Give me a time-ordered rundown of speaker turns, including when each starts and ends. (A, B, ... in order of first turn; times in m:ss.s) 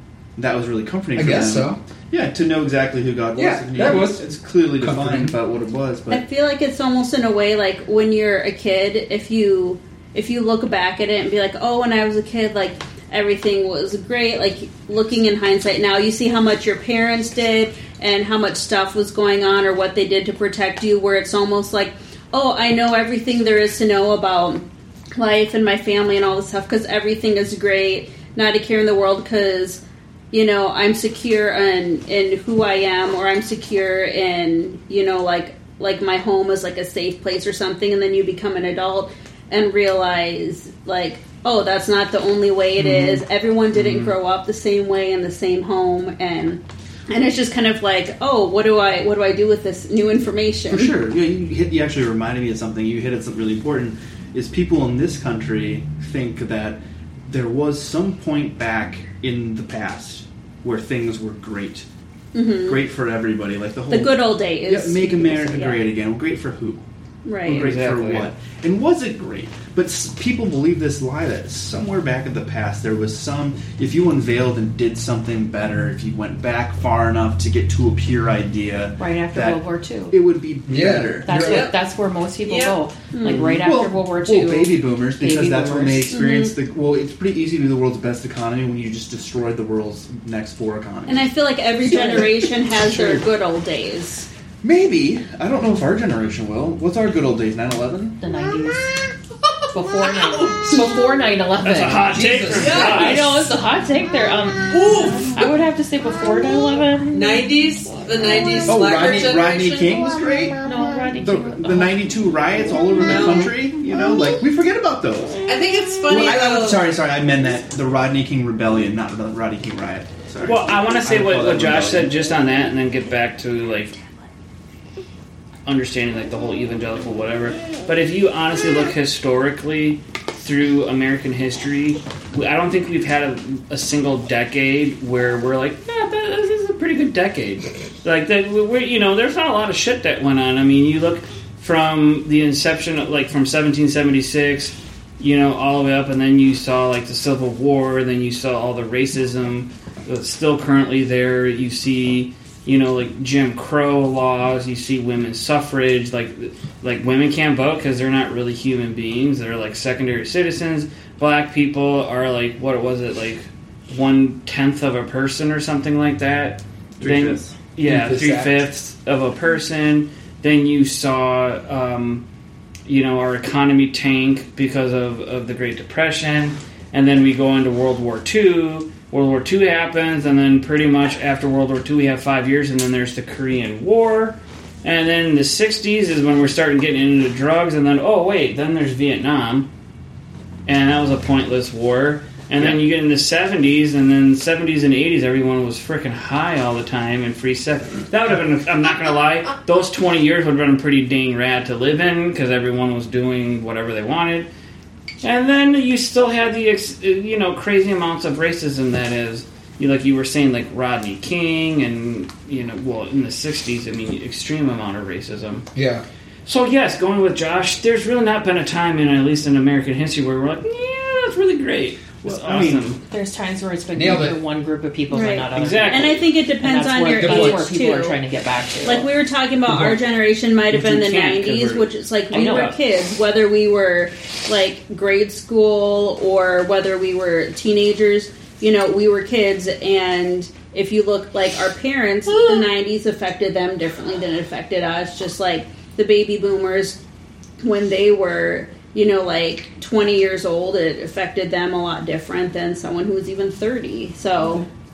0:00.4-0:06.2 A
0:01.1-0:01.8 B
0:03.4-0:05.4 B
0:06.1-0:50.9 C
0:42.8-0:44.2 D
0:50.7-1:01.9 A
1:02.3-1:02.8 C
1:02.6-1:06.8 A
1:03.9-1:05.9 C
1:07.2-1:07.7 C
1:07.4-1:21.7 A
1:07.5-1:08.3 D
1:19.0-1:20.2 E
1:20.7-1:21.6 B
1:21.2-1:26.1 E
1:21.4-1:21.7 F
1:23.1-1:23.6 C
1:23.2-1:33.3 A
1:26.1-1:26.5 C
1:31.1-1:34.3 C
1:34.6-1:38.2 A
1:38.2-1:38.9 E
1:39.7-1:42.2 E
1:41.6-1:43.5 D
1:42.1-1:43.1 B
1:42.5-1:43.3 F
1:42.7-1:48.5 E
1:44.7-1:45.6 F
1:47.1-1:50.0 F
1:48.6-1:55.5 A
1:50.6-1:52.2 E
1:53.0-1:53.6 F
1:55.4-1:57.0 F
1:56.1-2:02.1 A
2:00.4-2:04.0 D
2:05.6-2:52.2 D
2:47.0-2:47.5 A
2:47.8-2:48.6 B
2:52.9-3:09.7 D
3:10.7-3:24.5 D
3:25.2-3:35.7 D
3:35.7-3:36.0 B
3:36.4-3:43.0 D
3:42.2-3:43.0 A
3:43.1-3:49.1 E
3:43.9-3:44.4 B
3:45.1-3:48.2 C
3:45.5-3:46.2 D
3:47.2-3:47.6 B
3:48.8-4:07.0 C
3:49.6-3:50.0 D
3:50.7-3:52.8 D
4:02.4-4:02.6 F
4:07.6-4:14.6 C